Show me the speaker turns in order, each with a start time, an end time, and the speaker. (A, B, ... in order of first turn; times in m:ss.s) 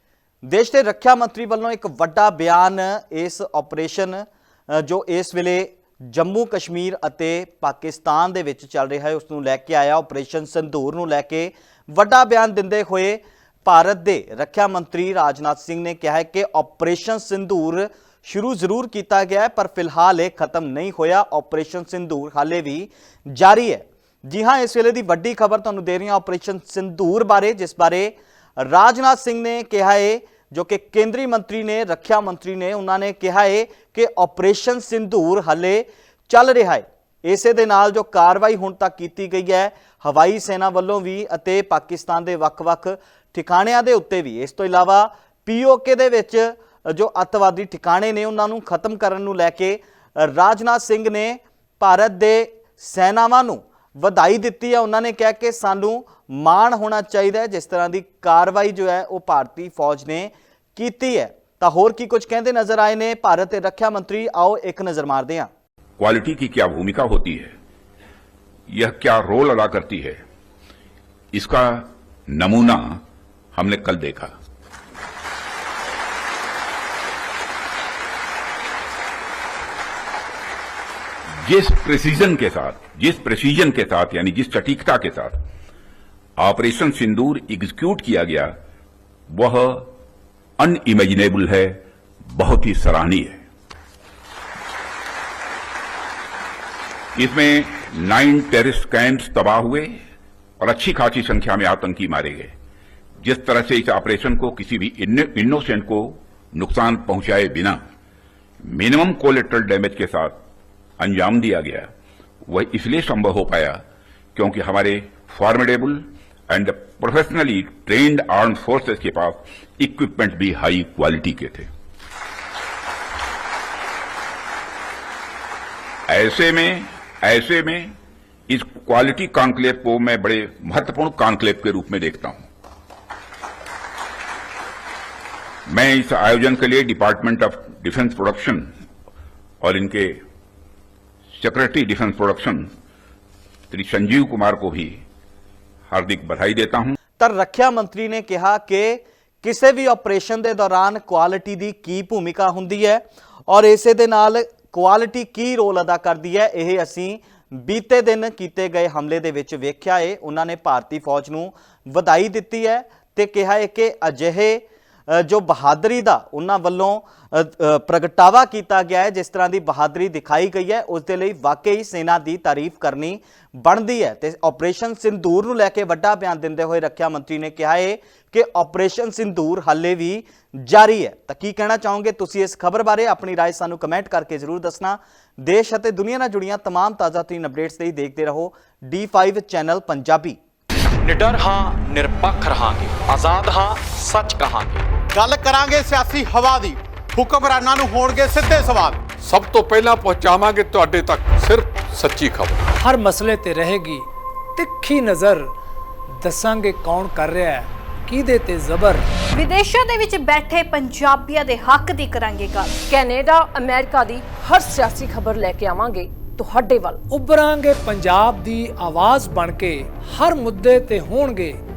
0:00.4-1:05.5 A
1:06.0-1:07.5 B
1:08.7-1:10.2 B
1:11.3-1:13.0 B
1:13.5-1:14.3 B
1:21.4-1:25.3 B
1:26.4-1:28.5 B
1:29.3-1:29.9 B
1:30.6-1:33.4 B
1:37.2-1:39.9 B
1:40.6-1:42.5 B
1:43.2-1:47.8 B
1:48.7-1:50.3 B
1:51.0-1:51.9 B
1:52.5-1:53.8 B
1:54.3-2:01.7 B
2:06.1-2:07.9 B
2:08.5-2:12.4 B
2:15.7-2:18.6 B
2:19.6-2:20.2 B
2:21.4-2:22.6 B
2:23.7-2:24.9 B
2:25.9-2:27.0 B
2:27.2-3:10.4 A
3:11.0-3:14.8 C
3:15.1-3:19.0 D
3:19.2-3:22.6 E
3:22.8-3:25.5 F
3:26.2-3:29.0 F
3:29.3-3:32.8 G
3:32.9-3:37.0 H
3:37.1-3:41.6 F